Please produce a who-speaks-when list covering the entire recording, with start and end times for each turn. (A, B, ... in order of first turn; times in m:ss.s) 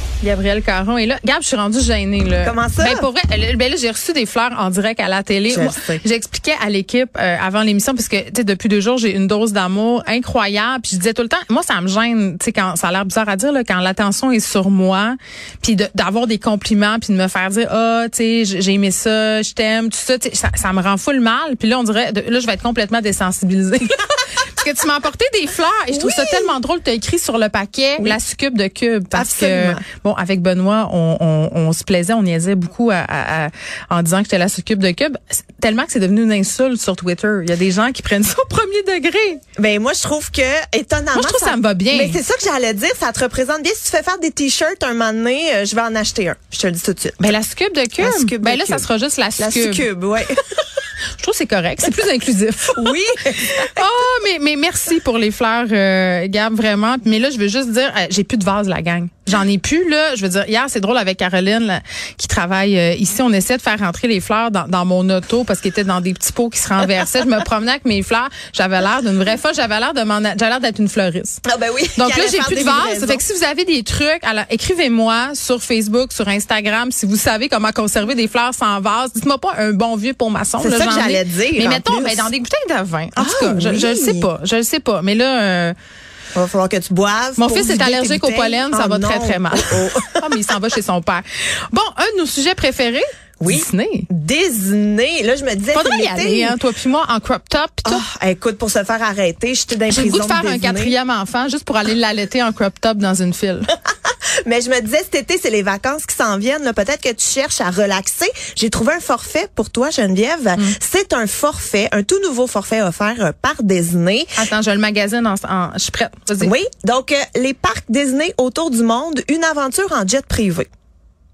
0:00.2-0:39.4 A
0:02.4-0:03.1 B
0:05.5-0:06.0 B
0:25.9-0:26.5 B
0:29.1-0:29.8 B
0:39.6-0:47.2 B
0:41.1-0:42.2 A
0:47.2-0:49.9 A
0:48.0-0:48.8 B
0:49.4-0:50.4 B
0:51.1-1:11.4 A
0:52.7-0:53.8 B
1:11.4-1:13.2 B
1:12.0-1:25.7 A
1:20.6-1:22.3 B
1:23.2-1:24.3 B
1:26.3-1:30.2 B
1:27.4-1:34.1 A
1:33.4-1:36.6 B
1:35.7-1:38.0 A
1:37.8-1:40.9 B
1:39.9-1:43.7 A
1:44.0-1:54.4 B
1:54.4-1:56.5 A
1:56.4-2:00.7 B